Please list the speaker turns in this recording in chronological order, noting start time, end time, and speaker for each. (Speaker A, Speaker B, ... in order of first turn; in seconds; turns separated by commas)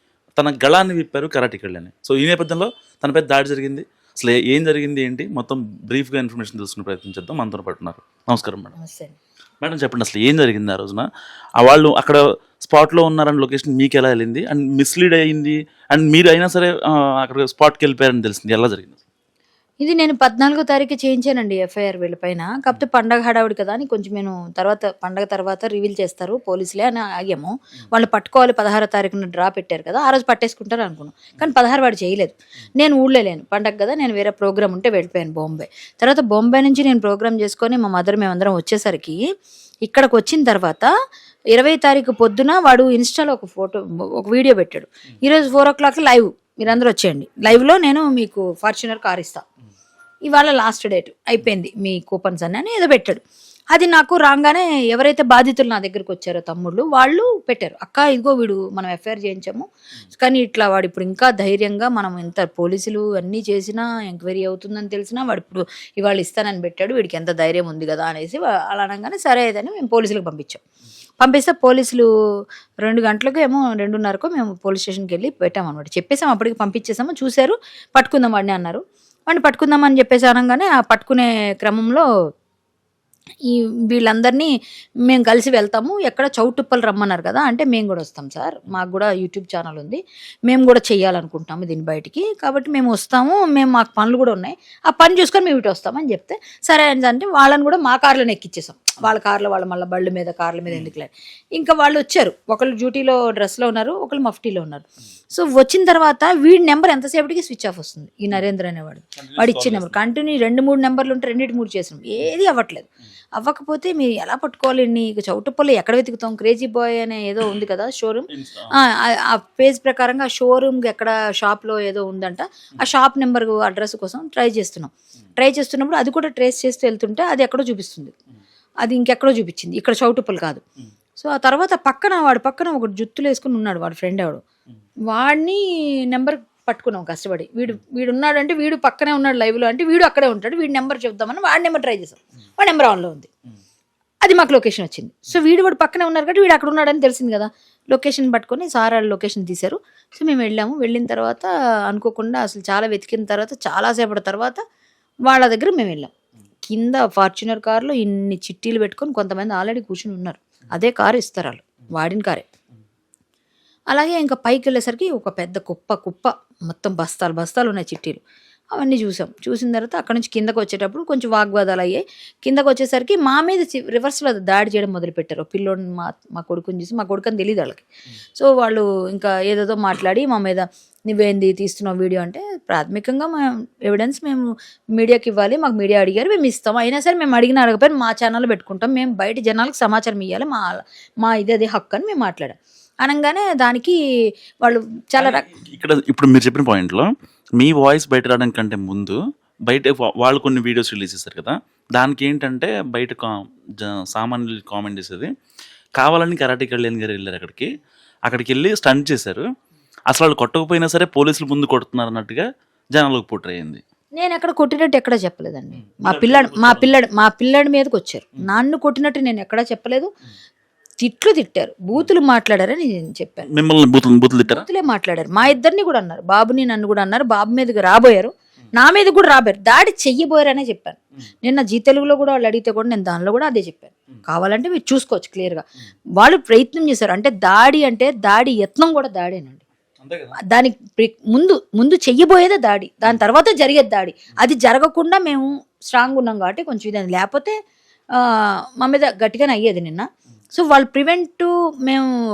Speaker A: 0.4-8.7, Speaker B: 8.8-9.1, Speaker A: 9.6-11.1, Speaker A: 11.6-19.0, Speaker B: 19.8-39.2, Speaker B: 39.8-40.9, Speaker B: 41.5-49.4, Speaker B: 50.2-53.2, Speaker B: 53.7-70.6, Speaker B: 71.2-72.1, Speaker B: 72.8-82.0, Speaker B: 83.5-84.5, Speaker B: 85.0-128.1, Speaker A: 109.2-110.0, Speaker A: 118.3-118.7, Speaker B: 128.8-130.6, Speaker B: 131.2-134.4, Speaker B: 135.1-143.3, Speaker B: 144.2-154.6, Speaker B: 155.2-156.1, Speaker B: 156.7-162.4, Speaker B: 163.9-168.2, Speaker B: 168.7-193.9, Speaker B: 194.6-195.4, Speaker A: 195.2-205.3, Speaker A: 206.0-207.7, Speaker A: 208.3-209.4, Speaker A: 210.1-213.8, Speaker B: 214.2-220.1, Speaker A: 215.8-216.9, Speaker B: 221.0-223.5, Speaker A: 223.5-224.6, Speaker B: 224.4-235.6, Speaker B: 236.2-239.6, Speaker A: 240.0-240.3, Speaker B: 240.5-247.5, Speaker B: 248.1-252.1